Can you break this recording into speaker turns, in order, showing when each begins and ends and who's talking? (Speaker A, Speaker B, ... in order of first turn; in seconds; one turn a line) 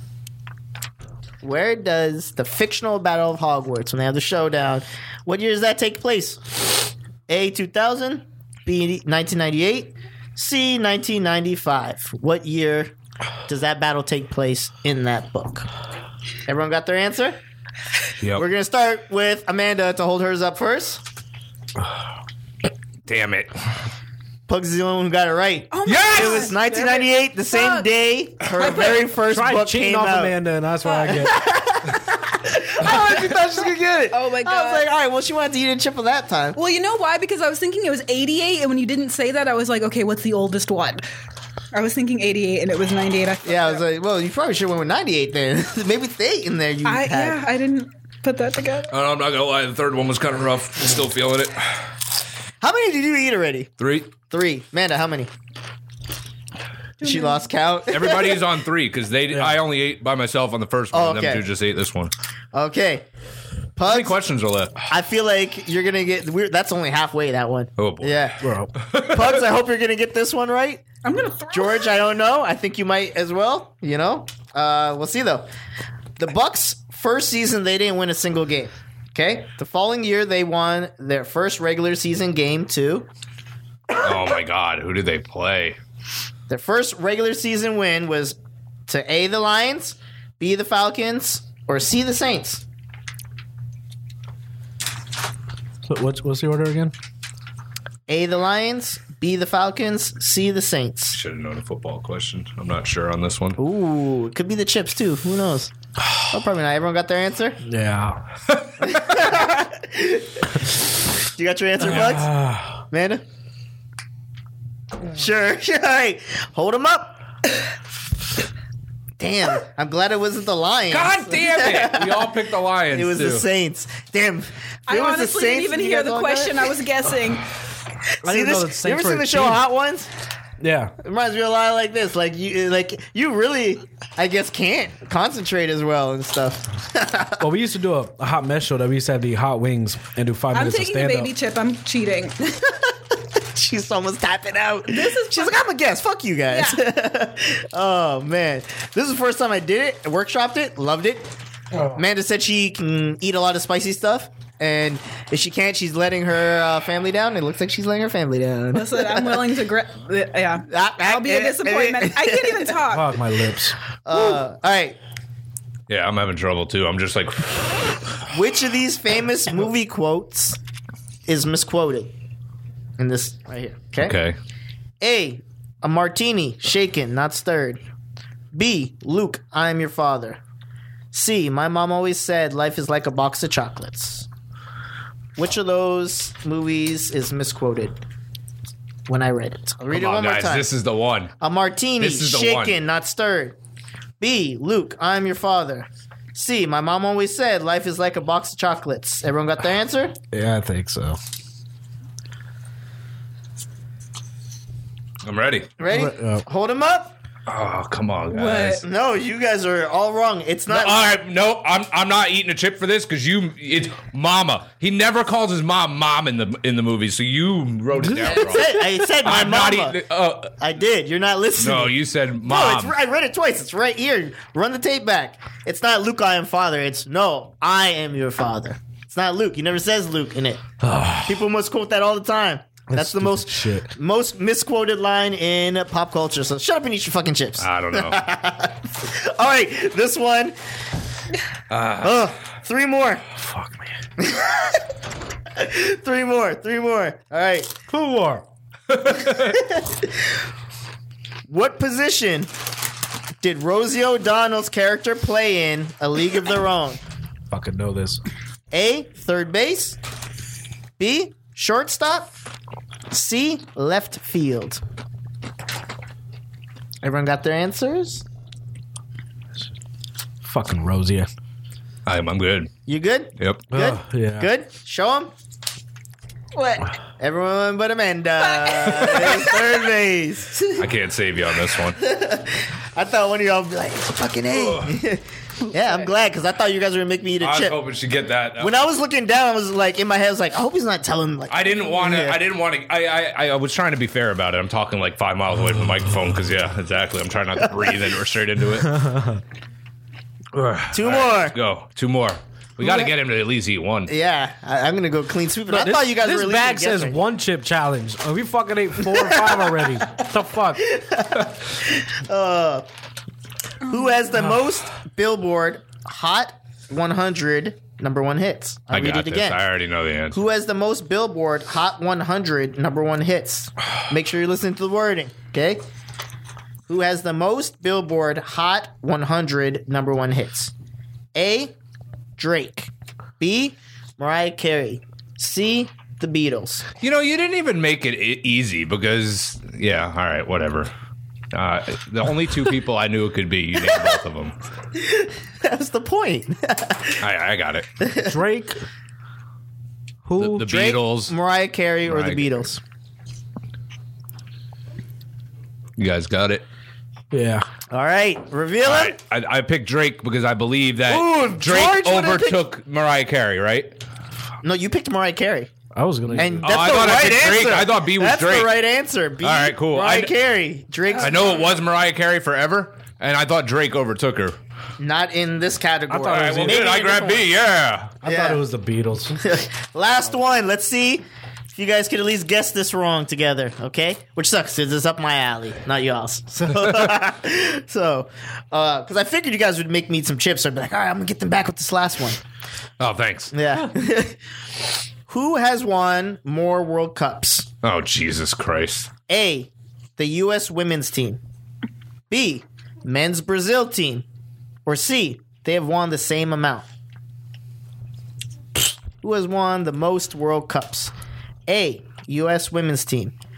Speaker A: 1.4-12.9
Speaker A: 13.5-15.7
Speaker A: 16.4-17.4
Speaker B: 18.2-18.4
Speaker A: 18.4-21.0
Speaker B: 23.1-23.6
Speaker A: 24.5-30.4
Speaker C: 25.7-27.9
Speaker B: 25.9-26.5
Speaker C: 28.6-29.0
Speaker D: 29.2-31.4
Speaker C: 30.8-31.3
Speaker A: 31.1-36.6
Speaker B: 32.9-33.2
Speaker C: 34.1-34.9
Speaker C: 36.5-41.0
Speaker C: 41.7-43.8
Speaker A: 43.5-47.4
Speaker C: 46.9-48.9
Speaker B: 48.9-51.7
Speaker A: 52.6-55.3
Speaker B: 53.8-54.1
Speaker C: 57.0-57.4
Speaker A: 57.0-58.5
Speaker B: 57.9-62.1
Speaker D: 59.3-59.6
Speaker A: 60.9-61.4
Speaker A: 62.5-63.0
Speaker A: 63.8-64.2
Speaker B: 63.9-64.7
Speaker A: 64.9-68.4
Speaker B: 67.8-69.4
Speaker D: 68.4-68.7
Speaker A: 68.9-70.9
Speaker C: 71.0-71.9
Speaker A: 71.5-75.5
Speaker A: 76.2-83.1
Speaker B: 84.0-85.8
Speaker A: 86.5-88.4
Speaker A: 88.9-92.6
Speaker D: 95.9-96.9
Speaker A: 98.1-101.2
Speaker B: 101.1-103.6
Speaker A: 103.6-105.7
Speaker A: 106.3-107.6
Speaker D: 107.6-108.2
Speaker B: 108.5-108.9
Speaker A: 108.8-110.5
Speaker A: 111.4-112.3
Speaker D: 111.8-112.8
Speaker A: 112.9-113.2
Speaker A: 115.0-117.2
Speaker A: 119.2-122.3
Speaker B: 120.9-123.5
Speaker A: 122.9-126.8
Speaker C: 124.9-127.5
Speaker D: 128.2-129.6
Speaker A: 128.2-130.1
Speaker D: 130.6-130.9
Speaker A: 131.0-137.4
Speaker D: 137.4-141.3
Speaker C: 140.5-142.8
Speaker A: 143.4-151.3
Speaker C: 144.9-145.6
Speaker C: 146.5-146.8
Speaker A: 151.9-159.4
Speaker C: 158.7-163.1
Speaker A: 160.7-162.7
Speaker D: 162.9-163.8
Speaker A: 164.1-165.0
Speaker B: 165.9-167.9
Speaker A: 168.3-170.6
Speaker A: 171.3-172.1
Speaker A: 173.0-174.1
Speaker B: 174.0-174.4
Speaker A: 175.0-177.8
Speaker A: 178.5-180.4
Speaker A: 181.1-184.3
Speaker A: 185.4-188.0
Speaker A: 189.1-190.7
Speaker B: 189.9-191.3
Speaker A: 191.4-193.6
Speaker B: 192.0-192.8
Speaker A: 194.2-200.2
Speaker D: 200.3-201.2
Speaker B: 205.2-205.7
Speaker A: 205.8-207.1
Speaker D: 205.9-206.4
Speaker B: 207.4-208.8
Speaker C: 208.3-208.8
Speaker A: 208.8-211.1
Speaker B: 210.7-220.5
Speaker A: 218.2-220.0
Speaker A: 220.6-230.6
Speaker B: 221.6-222.9
Speaker D: 230.8-231.4
Speaker A: 231.2-240.6
Speaker D: 232.9-233.9
Speaker B: 237.6-238.2
Speaker B: 241.7-242.3
Speaker A: 242.0-243.2
Speaker D: 243.4-243.9
Speaker A: 244.2-244.8
Speaker A: 245.6-247.7
Speaker D: 247.9-248.4
Speaker B: 248.9-249.6
Speaker A: 249.3-250.1
Speaker A: 251.5-252.5
Speaker A: 253.4-257.0
Speaker D: 257.5-258.2
Speaker A: 258.7-260.0
Speaker A: 261.0-262.3
Speaker A: 263.1-264.8
Speaker A: 267.0-268.2
Speaker D: 270.4-271.3
Speaker B: 272.1-272.7
Speaker A: 272.9-275.3
Speaker D: 273.7-274.5
Speaker C: 276.5-276.9
Speaker A: 277.2-280.9
Speaker C: 278.4-279.4
Speaker B: 280.8-282.0
Speaker A: 281.9-287.8
Speaker B: 284.5-285.0
Speaker C: 285.7-286.0
Speaker B: 287.4-288.7
Speaker A: 288.6-292.4
Speaker B: 291.5-298.9
Speaker D: 298.8-299.4
Speaker B: 300.5-304.1
Speaker A: 300.9-301.6
Speaker A: 304.1-307.2
Speaker D: 305.7-310.8
Speaker A: 309.1-310.2
Speaker A: 310.8-312.9
Speaker A: 313.9-319.6
Speaker C: 313.9-314.1
Speaker B: 318.9-320.4
Speaker A: 320.3-325.8
Speaker A: 326.9-330.7
Speaker A: 331.4-331.7
Speaker A: 332.4-336.9
Speaker B: 337.0-340.9
Speaker B: 341.5-344.6
Speaker A: 344.9-347.2
Speaker B: 347.2-347.9
Speaker A: 348.0-348.3
Speaker D: 348.2-348.8
Speaker D: 350.2-350.6
Speaker B: 350.4-351.4
Speaker A: 350.6-352.8
Speaker B: 352.0-352.6
Speaker B: 356.0-356.6
Speaker D: 357.3-357.7
Speaker A: 357.9-359.2
Speaker B: 358.8-364.0
Speaker A: 361.1-362.6
Speaker A: 364.6-365.7
Speaker D: 365.9-366.7
Speaker A: 366.3-371.7
Speaker B: 366.4-368.7
Speaker B: 369.4-370.3
Speaker B: 371.2-374.6
Speaker A: 375.0-377.5
Speaker D: 376.1-376.9
Speaker B: 376.3-378.1
Speaker D: 378.2-379.4
Speaker A: 378.2-378.6
Speaker A: 379.4-381.2
Speaker A: 381.8-392.4
Speaker B: 393.0-393.5
Speaker A: 393.5-394.4
Speaker A: 395.3-397.7
Speaker B: 397.8-399.1
Speaker A: 399.3-401.4
Speaker A: 402.3-404.2
Speaker A: 404.9-406.9
Speaker A: 409.2-411.1
Speaker A: 411.7-413.3